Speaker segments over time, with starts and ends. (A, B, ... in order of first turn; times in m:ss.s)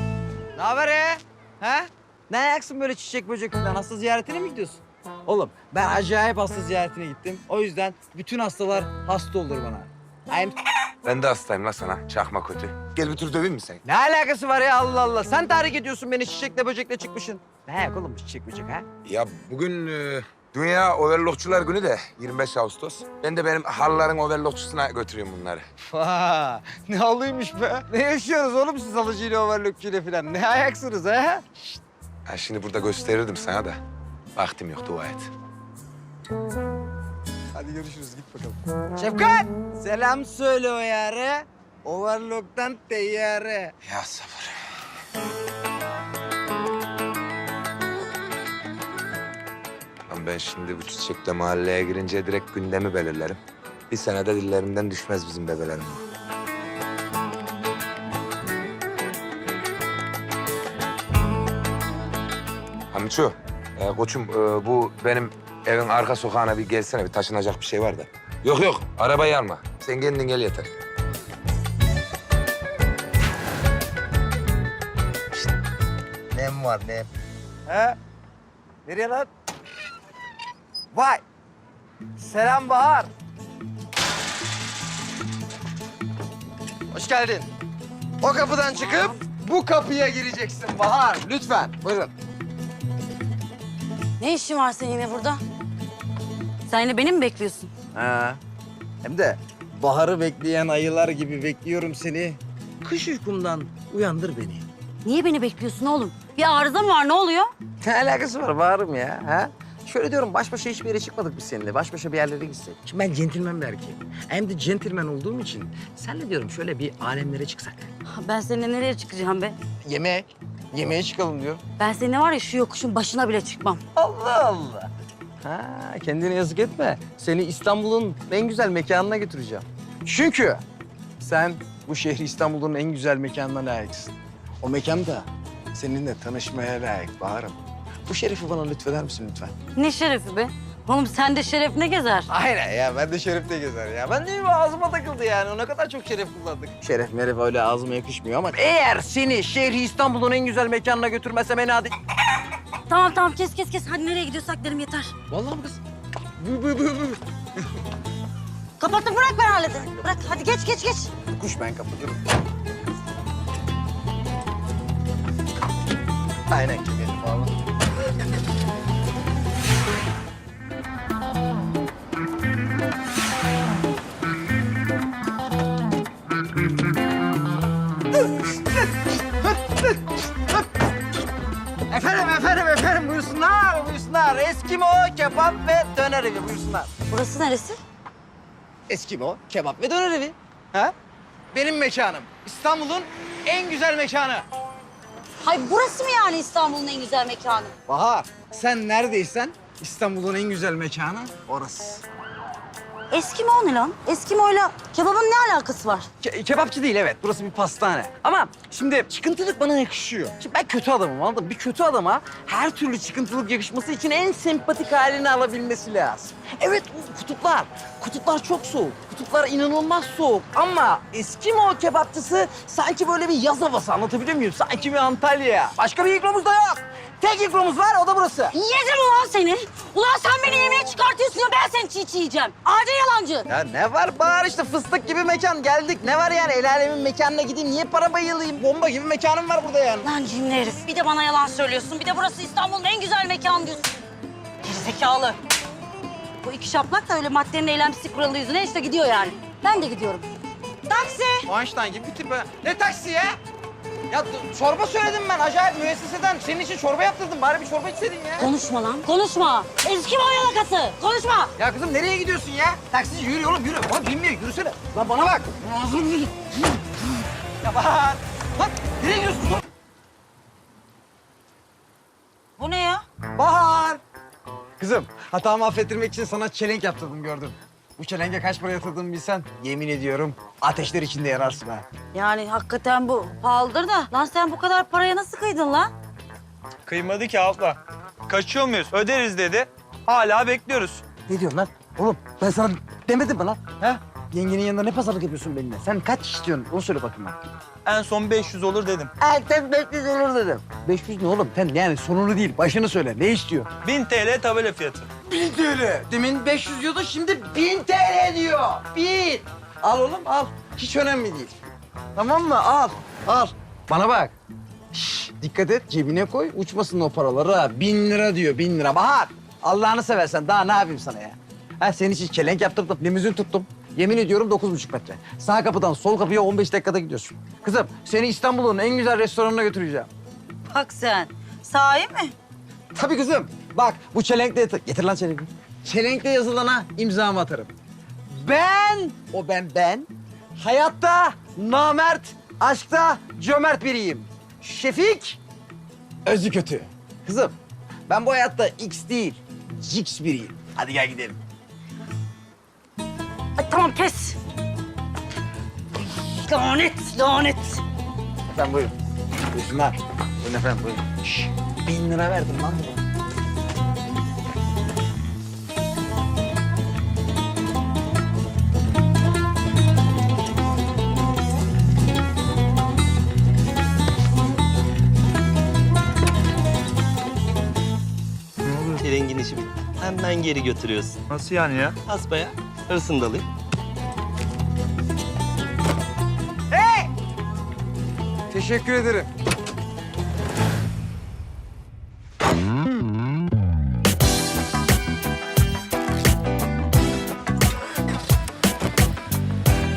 0:00.6-0:10.6 A
0:11.0-0:13.8 B
0:13.8-0:18.9 A
0:19.0-0:25.7 B
0:25.9-0:31.8 A
0:32.3-0:33.8 B
0:34.4-0:35.3 B
0:37.5-0:43.7 A
0:43.9-0:44.6 B
0:50.1-0:53.4 B
0:53.9-0:56.0 B
1:02.9-1:10.7 B
1:16.3-1:17.1 A
1:17.7-1:18.0 A
1:18.8-1:19.3 A
1:20.9-1:21.2 A
1:22.2-1:23.1 A
1:26.9-1:27.5 A
1:28.2-1:32.1 A
1:28.8-1:29.2 C
1:34.2-1:35.4 C
1:36.7-1:37.7 C
1:37.9-1:38.4 A
1:39.0-1:44.7 A
1:45.0-1:47.5 C
1:47.8-1:57.9 A
1:58.1-1:59.6 C
1:59.8-2:01.6 A
2:01.8-2:03.8 C
2:04.0-2:04.9 A
2:05.4-2:10.6 A
2:11.2-2:19.5 A
2:19.8-2:22.3 C
2:22.3-2:31.9 A
2:32.9-2:35.1 C
2:35.3-2:35.8 A
2:36.4-2:37.2 A
2:38.8-2:41.1 C
2:41.3-2:42.2 A
2:46.5-2:47.6 A
2:59.4-3:00.6 A
3:01.9-3:06.9 A
3:07.1-3:07.8 C
3:08.9-3:10.9 A
3:11.5-3:14.4 A
3:15.4-3:17.7 C
3:17.9-3:22.0 A
3:23.1-3:26.1 C
3:26.2-3:48.6 A
3:48.5-3:53.5 C
3:53.5-4:00.1 A
4:00.0-4:03.9 C
4:04.6-4:05.4 C
4:06.4-4:10.3 C
4:10.9-4:11.5 C
4:11.5-4:13.4 A
4:14.1-4:18.5 A
4:18.4-4:21.5 C
4:21.6-4:26.8 A
4:27.6-4:29.6 A
4:32.6-4:33.0 C
4:33.3-4:34.0 A
4:34.8-4:41.9 A
4:42.1-4:45.9 C
4:46.8-4:51.1 D
4:51.3-4:57.4 A
4:57.9-4:59.1 D
4:59.2-5:03.7 A
5:03.8-5:05.1 D
5:05.2-5:11.6 A
5:12.2-5:14.4 A
5:14.9-5:30.1 A
5:30.7-5:32.3 C
5:33.0-5:37.7 A
5:38.3-5:45.4 A
5:46.2-5:47.6 A
5:48.1-5:51.4 A
5:53.6-5:54.4 C
5:56.3-5:57.8 C
5:58.5-5:58.9 A
5:59.5-6:03.0 A
6:18.8-6:21.2 E
6:21.3-6:22.0 D
6:22.0-6:23.5 E
6:26.7-6:27.1 A
6:28.5-6:29.3 A